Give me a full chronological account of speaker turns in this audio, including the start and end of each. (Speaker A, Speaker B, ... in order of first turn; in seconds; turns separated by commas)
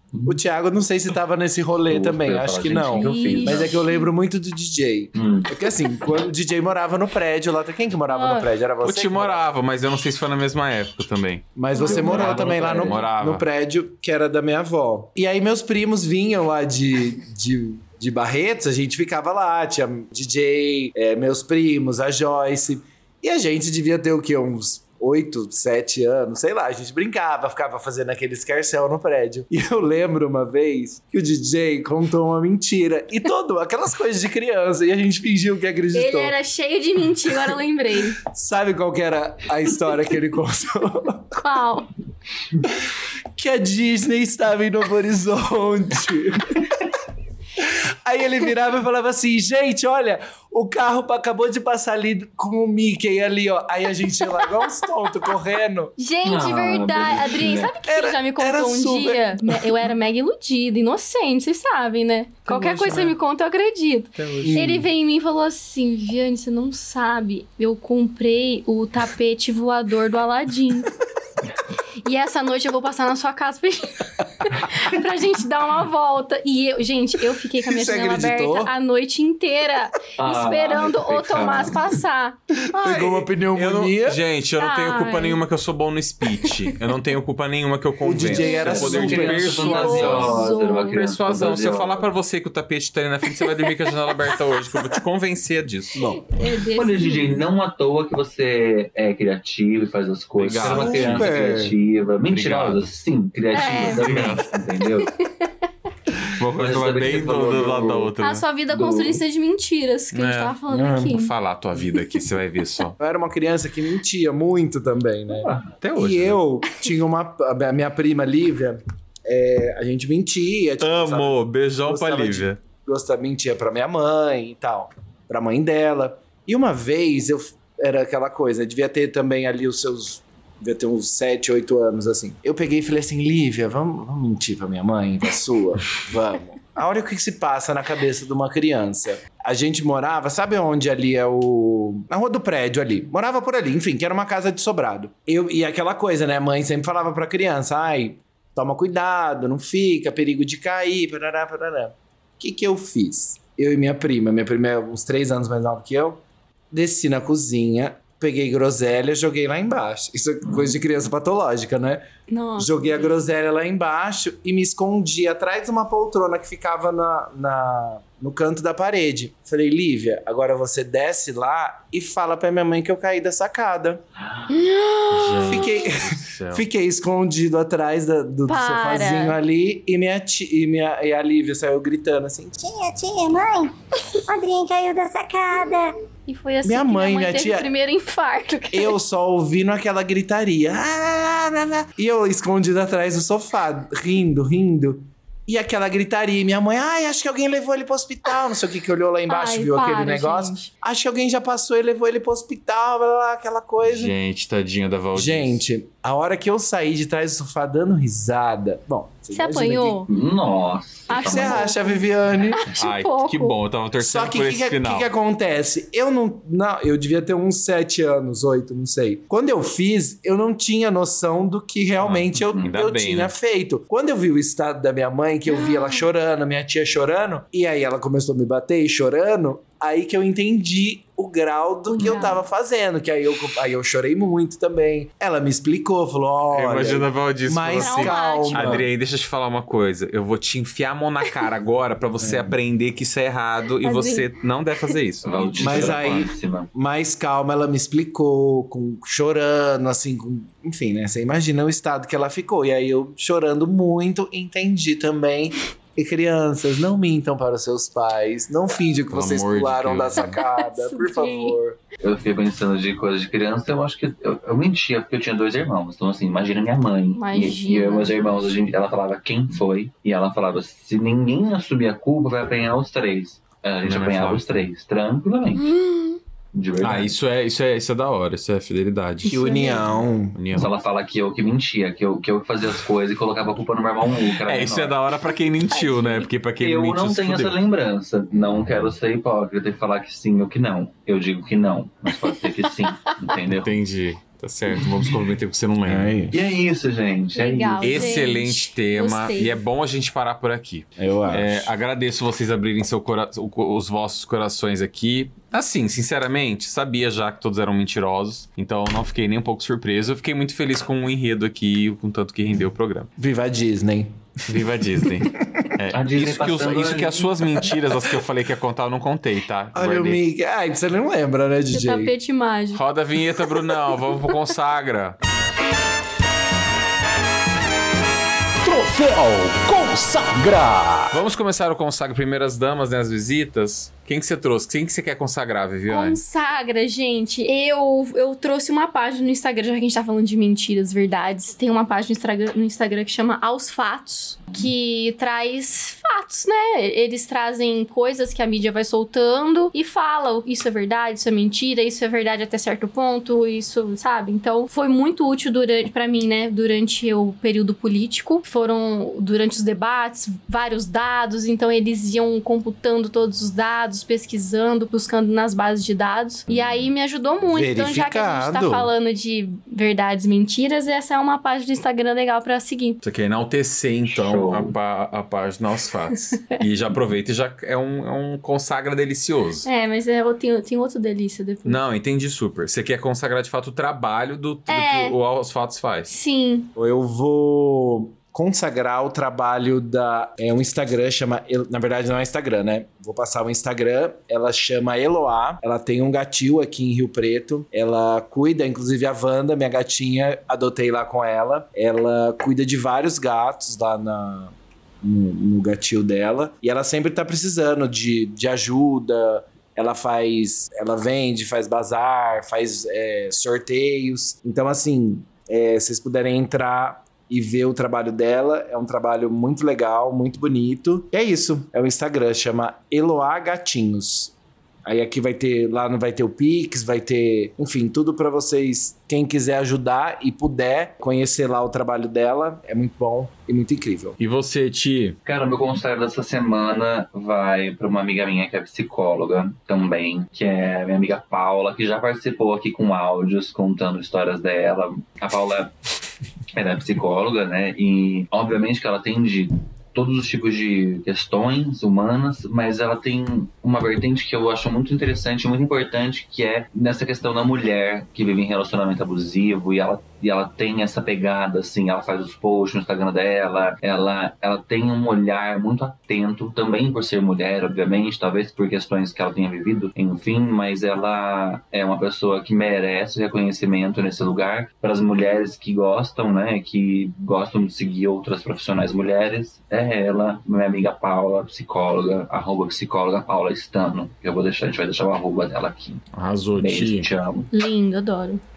Speaker A: 0.2-9.5, Speaker B: 1.9-3.8, Speaker C: 3.0-4.1, Speaker B: 5.2-5.5, Speaker C: 8.1-8.5, Speaker D: 8.8-11.5, Speaker A: 11.6-36.4, Speaker C: 11.7-12.2, Speaker B: 11.8-13.0, Speaker D: 12.1-13.4, Speaker C: 36.0-38.2, Speaker A: 38.2-41.4, Speaker C: 41.4-41.9, Speaker A: 43.4-46.8, Speaker A: 47.6-56.0, Speaker C: 56.0-70.9, Speaker B: 56.2-57.7, Speaker A: 57.8-59.8, Speaker D: 62.5-63.1, Speaker A: 64.4-64.9, Speaker C: 72.0-83.1, Speaker A: 77.7-78.7, Speaker B: 80.2-81.8, Speaker A: 82.7-84.2, Speaker D: 82.9-90.4, Speaker C: 84.6-85.4, Speaker A: 88.0-89.8, Speaker B: 88.3-92.0, Speaker C: 88.3-91.0, Speaker D: 90.9-96.0, Speaker A: 96.0-96.3, Speaker C: 96.1-97.4, Speaker B: 96.8-105.1, Speaker D: 100.4-101.3, Speaker A: 100.6-101.8, Speaker D: 102.3-102.8, Speaker C: 103.5-104.4, Speaker D: 103.9-104.5, Speaker D: 106.2-108.4, Speaker B: 106.6-108.1, Speaker C: 108.2-111.3, Speaker B: 108.7-109.2, Speaker D: 110.1-110.6, Speaker A: 110.7-111.2, Speaker D: 111.1-113.0, Speaker A: 113.0-156.2, Speaker B: 115.4-115.7, Speaker D: 115.8-116.4, Speaker D: 120.8-122.6, Speaker A: 156.7-162.0, Speaker C: 162.3-163.2, Speaker A: 162.6-174.0, Speaker B: 174.2-174.5, Speaker C: 174.5-175.8, Speaker D: 175.1-176.7, Speaker A: 175.4-182.6, Speaker C: 178.5-179.3, Speaker E: 182.6-185.9, Speaker C: 186.3-189.0, Speaker A: 186.6-187.7, Speaker A: 188.7-204.1, Speaker C: 199.3-200.7, Speaker D: 203.8-205.6, Speaker A: 205.1-210.1, Speaker C: 209.3-210.1, Speaker B: 210.1-211.7, Speaker C: 211.1-213.6, Speaker A: 211.2-212.6, Speaker D: 212.8-215.1, Speaker A: 214.0-238.9, Speaker D: 222.0-223.3, Speaker B: 222.3-222.6, Speaker C: 225.5-226.0, Speaker C: 231.9-232.4, Speaker D: 236.5-246.3, Speaker C: 237.8-238.9, Speaker A: 242.2-242.6, Speaker C: 243.8-244.3, Speaker B: 245.2-246.7, Speaker A: 245.6-261.8, Speaker D: 259.1-260.3, Speaker C: 260.2-261.6, Speaker B: 262.0-275.7, Speaker C: 267.2-268.1, Speaker D: 273.9-274.4, Speaker C: 275.6-276.2, Speaker B: 276.5-277.1, Speaker D: 276.8-279.4, Speaker C: 279.2-280.0, Speaker A: 279.2-280.4, Speaker D: 280.3-280.7, Speaker B: 280.5-284.9, Speaker D: 284.5-287.6, Speaker C: 285.7-286.3, Speaker B: 286.6-293.7, Speaker D: 293.5-296.2, Speaker A: 295.9-296.4, Speaker B: 296.3-298.2, Speaker C: 297.4-299.6, Speaker D: 297.8-313.1, Speaker A: 301.0-301.7, Speaker A: 313.2-314.1, Speaker D: 314.5-320.2, Speaker A: 315.2-315.7, Speaker B: 315.9-317.3, Speaker A: 319.7-322.1, Speaker C: 321.7-322.8, Speaker D: 322.7-325.2, Speaker A: 328.6-331.2, Speaker D: 331.1-336.2, Speaker C: 335.9-373.0, Speaker D: 366.5-366.8, Speaker A: 367.5-368.9, Speaker D: 373.0-379.7, Speaker B: 374.1-374.7, Speaker C: 379.6-381.8, Speaker D: 381.7-386.1, Speaker C: 384.7-385.2, Speaker C: 386.1-386.7, Speaker A: 386.8-424.3, Speaker A: 424.9-434.2, Speaker D: 434.2-435.2, Speaker B: 435.3-445.7, Speaker B: 446.5-486.0, Speaker D: 486.1-487.1, Speaker B: 486.6-487.5, Speaker C: 487.5-488.4